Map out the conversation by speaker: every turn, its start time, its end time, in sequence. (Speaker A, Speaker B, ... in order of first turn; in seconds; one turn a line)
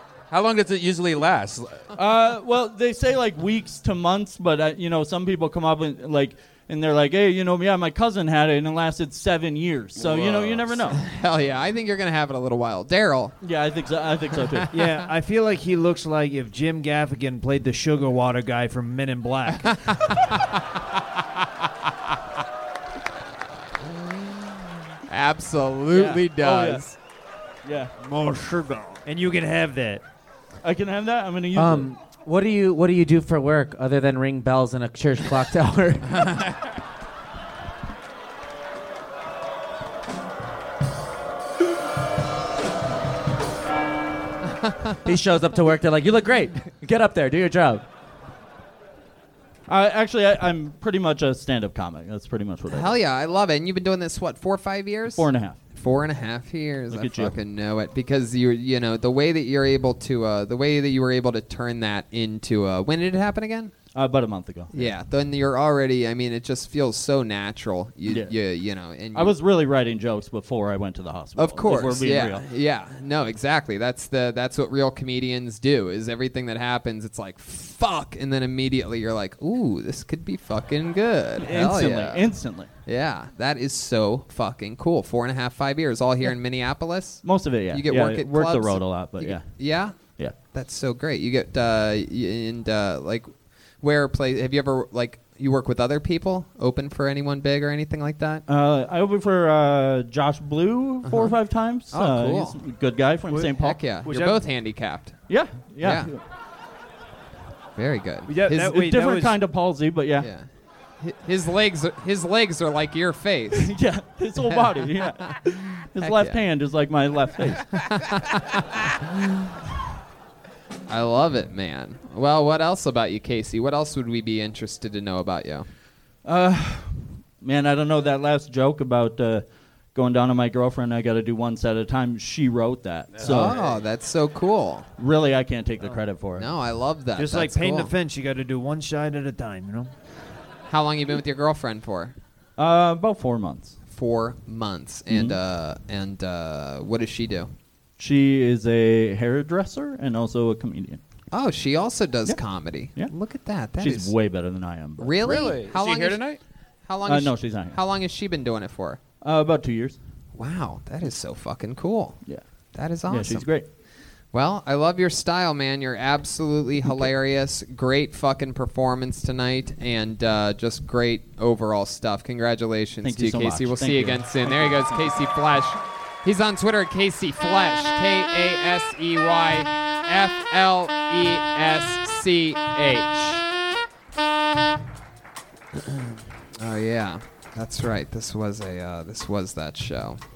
Speaker A: 0.3-1.9
Speaker B: 1.9-11.0
Speaker A: 10.0-10.8
Speaker C: 10.9-13.4
Speaker B: 13.4-14.7
Speaker C: 14.5-15.1
Speaker D: 14.7-19.8
Speaker C: 20.0-20.4
Speaker C: 25.1-26.9
Speaker B: 25.9-26.8
Speaker B: 27.6-27.9
Speaker D: 28.0-30.0
Speaker B: 30.6-31.9
Speaker E: 31.5-36.3
Speaker C: 44.6-45.0
Speaker E: 45.0-47.8
Speaker B: 49.7-52.9
Speaker C: 52.7-63.7
Speaker B: 55.1-55.6
Speaker B: 56.9-57.4
Speaker B: 63.9-64.9
Speaker C: 64.7-69.4
Speaker B: 68.0-68.3
Speaker B: 69.1-72.4
Speaker C: 71.3-98.4
Speaker B: 81.4-82.7
Speaker B: 87.2-89.5
Speaker B: 90.1-90.3
Speaker B: 98.5-103.8
Speaker C: 101.0-102.6
Speaker D: 103.3-103.5
Speaker C: 103.3-105.2
Speaker D: 104.0-104.3
Speaker B: 105.3-106.2
Speaker C: 105.8-106.1
Speaker C: 107.8-108.9
Speaker D: 108.3-109.4
Speaker B: 108.6-110.3
Speaker C: 110.2-110.5
Speaker C: 111.0-113.8
Speaker B: 113.5-117.8
Speaker C: 114.3-116.5
Speaker C: 117.7-118.6
Speaker C: 120.9-125.7
Speaker B: 126.2-133.6
Speaker A: 133.1-133.8
Speaker C: 133.2-134.9
Speaker B: 135.0-136.5
Speaker C: 136.3-137.9
Speaker D: 137.2-139.9
Speaker C: 140.7-142.1
Speaker B: 142.6-143.8
Speaker C: 143.9-147.5
Speaker B: 145.1-145.4
Speaker B: 148.0-151.0
Speaker C: 151.3-154.2
Speaker B: 153.8-155.2
Speaker C: 155.0-156.3
Speaker A: 155.2-156.4
Speaker C: 156.9-159.0
Speaker B: 157.1-157.8
Speaker B: 159.2-160.0
Speaker C: 160.3-162.2
Speaker C: 162.7-163.5
Speaker B: 163.1-163.7
Speaker C: 164.3-183.4
Speaker B: 173.0-175.0
Speaker C: 185.7-190.2